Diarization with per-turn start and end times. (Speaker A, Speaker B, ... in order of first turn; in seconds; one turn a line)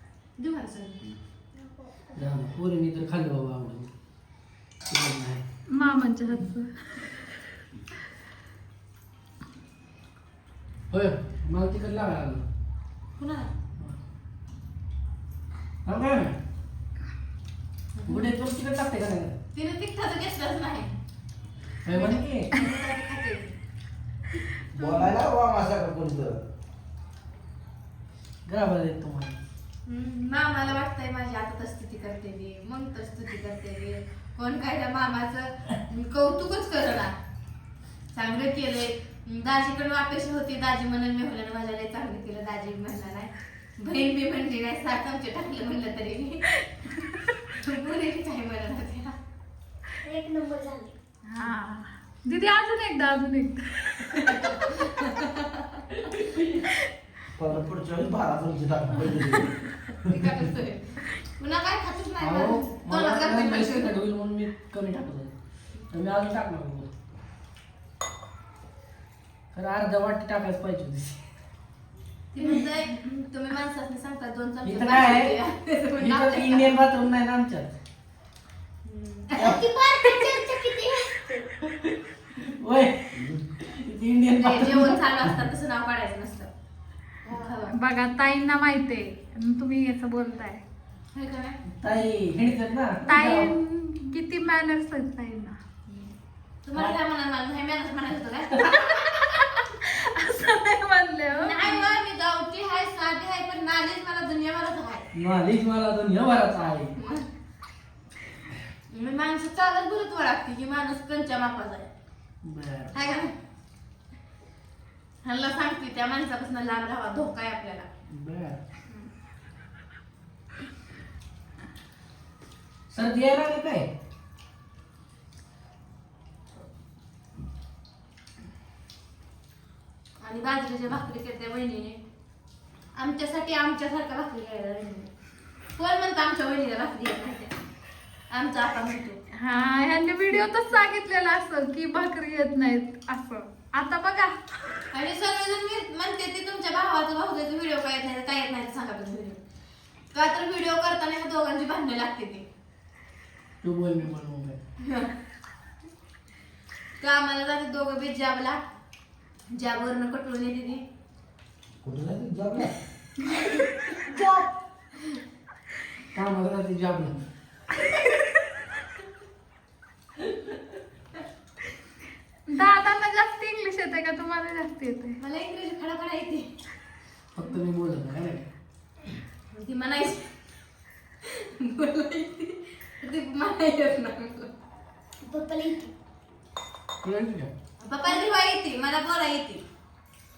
Speaker A: 0.4-1.0
Speaker B: 1.5-2.3
Speaker C: 2.2-3.9
Speaker C: 4.9-5.4
Speaker D: 5.7-7.2
Speaker C: 10.9-12.4
Speaker A: 13.2-13.5
Speaker C: 15.8-16.4
Speaker A: 18.0-18.3
Speaker C: 18.1-19.4
Speaker A: 19.5-20.9
Speaker C: 21.9-22.5
Speaker A: 21.9-23.6
Speaker E: 24.7-26.4
Speaker A: 24.8-25.1
Speaker C: 28.5-29.4
Speaker A: 29.9-37.1
Speaker A: 38.1-46.6
Speaker A: 47.6-49.1
Speaker B: 50.0-50.9
Speaker D: 51.3-53.9
Speaker A: 54.3-55.7
Speaker E: 57.4-59.5
Speaker A: 60.0-63.9
Speaker C: 62.2-65.3
Speaker C: 65.9-66.9
Speaker C: 69.5-71.2
Speaker A: 72.3-76.8
Speaker C: 74.6-75.4
Speaker C: 76.0-77.7
Speaker A: 78.8-79.6
Speaker B: 79.4-81.5
Speaker C: 82.4-85.0
Speaker E: 83.1-83.5
Speaker A: 84.4-86.5
Speaker A: 87.2-87.7
Speaker D: 87.7-90.6
Speaker A: 91.1-91.6
Speaker C: 91.8-93.5
Speaker D: 93.1-95.6
Speaker A: 95.9-96.1
Speaker A: 96.7-99.1
Speaker D: 98.9-102.0
Speaker A: 101.3-105.1
Speaker C: 105.1-106.9
Speaker A: 107.0-107.3
Speaker A: 108.9-111.9
Speaker C: 112.4-113.0
Speaker A: 112.9-113.3
Speaker A: 115.2-117.9
Speaker C: 118.1-118.6
Speaker C: 122.9-123.9
Speaker A: 130.2-132.0
Speaker A: 132.9-135.1
Speaker A: 135.8-137.6
Speaker A: 138.3-139.2
Speaker D: 139.4-144.8
Speaker A: 144.9-149.4
Speaker A: 150.1-152.5
Speaker C: 153.6-154.6
Speaker A: 154.8-155.1
Speaker A: 157.0-158.6
Speaker A: 159.5-160.8
Speaker E: 161.8-162.7
Speaker B: 164.0-164.5
Speaker C: 166.1-167.2
Speaker D: 172.5-175.2
Speaker A: 175.2-176.5
Speaker C: 177.3-178.5
Speaker A: 179.5-180.3
Speaker A: 181.2-184.5
Speaker B: 185.2-185.9
Speaker C: 187.0-187.5
Speaker A: 187.8-189.6